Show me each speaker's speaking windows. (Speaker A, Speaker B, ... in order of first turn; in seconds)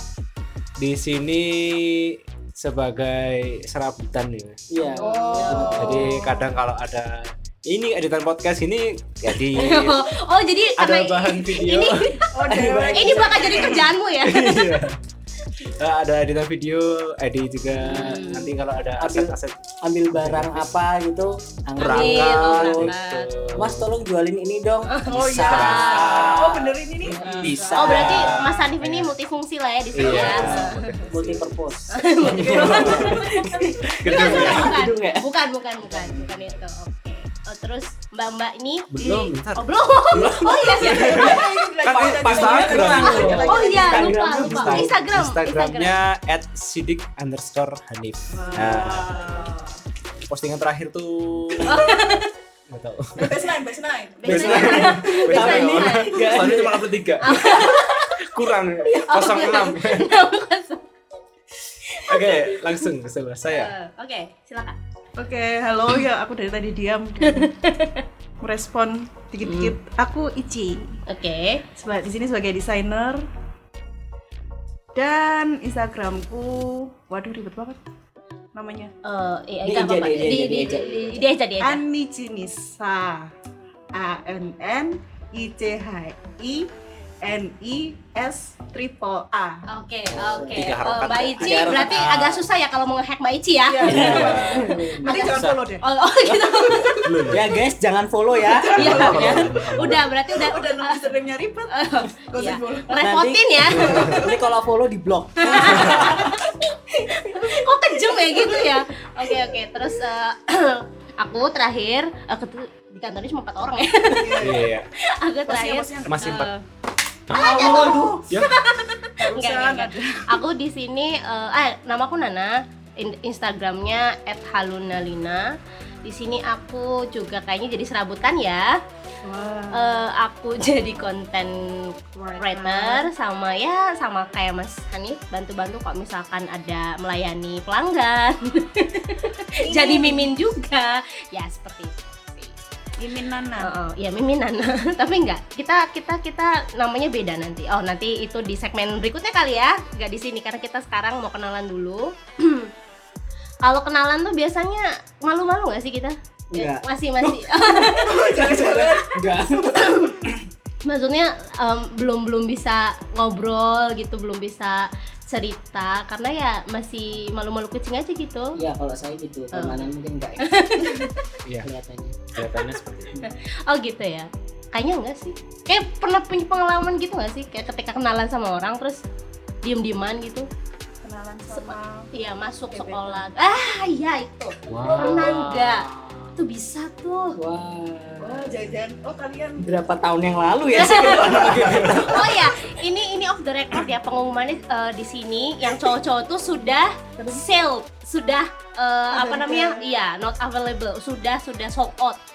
Speaker A: 0.8-4.6, 5.8-10.0, 10.8-12.1, 14.2-15.0, 15.6-19.5, 20.1-20.7, 21.8-23.9, 25.4-26.4, 27.1-29.1, 29.9-31.5, 32.2-33.2, 34.0-34.8, 38.9-43.5, 44.3-49.4, 50.3-51.9, 52.7-53.5, 54.2-60.1, 62.0-63.7, 90.2-92.4, 93.8-94.7, 97.0-97.5, 98.7-100.1, 103.7-104.2, 114.4-114.9, 116.0-116.5, 172.3-173.2, 184.7-185.7, 191.1-192.0
Speaker B: 4.7-6.2, 12.5-13.5, 19.0-22.9, 23.6-28.0, 30.4-31.9, 33.1-35.3, 35.8-36.5, 40.2-44.9, 54.6-56.9, 79.6-81.2, 90.1-92.0, 93.9-95.6, 96.3-96.5, 97.3-99.5, 103.0-106.3, 117.3-118.2, 156.5-160.3, 168.6-170.5, 171.6-172.2, 184.7-185.3, 185.9-186.3, 187.4-188.6, 189.6-192.5
Speaker C: 5.0-6.1, 9.5-12.3, 12.9-14.8, 17.8-18.5, 21.8-23.2, 24.9-26.2, 27.7-30.9, 31.9-33.3, 34.1-41.4, 42.8-46.0, 51.6-52.3, 54.2-56.5, 57.2-58.2, 58.9-60.9, 61.7-62.9, 63.5-64.8, 67.2-68.0, 69.4-69.8, 71.1-71.7, 79.0-81.8, 89.7-97.1, 98.7-101.1, 101.7-104.3, 105.4-114.5, 115.1-116.6, 117.3-125.5, 126.0-128.7, 129.7-131.6, 132.4-142.6, 143.6-152.7, 153.6-158.2, 159.7-160.2, 160.8-168.6, 169.5-171.3, 172.4-179.0, 179.6-180.5, 181.5-187.4, 190.8-202.2
Speaker D: 5.0-6.4, 12.3-13.9, 25.1-28.5, 30.1-30.6, 32.1-34.3, 40.8-44.3, 48.3-49.8, 53.2-55.1, 65.2-67.5, 68.4-71.0, 71.7-73.3, 75.0-77.8, 78.5-78.9, 81.6-83.3, 83.9-86.7, 87.2-89.6, 93.7-95.8, 98.4-103.0, 105.6-106.2, 114.1-114.6, 115.5-116.3, 117.3-118.2, 119.2-120.4, 129.2-130.0, 132.2-133.1, 139.6-140.3, 143.0-143.7, 158.0-159.8, 181.0-182.1, 182.7-183.2, 188.2-189.8, 197.2-197.4, 199.1-199.8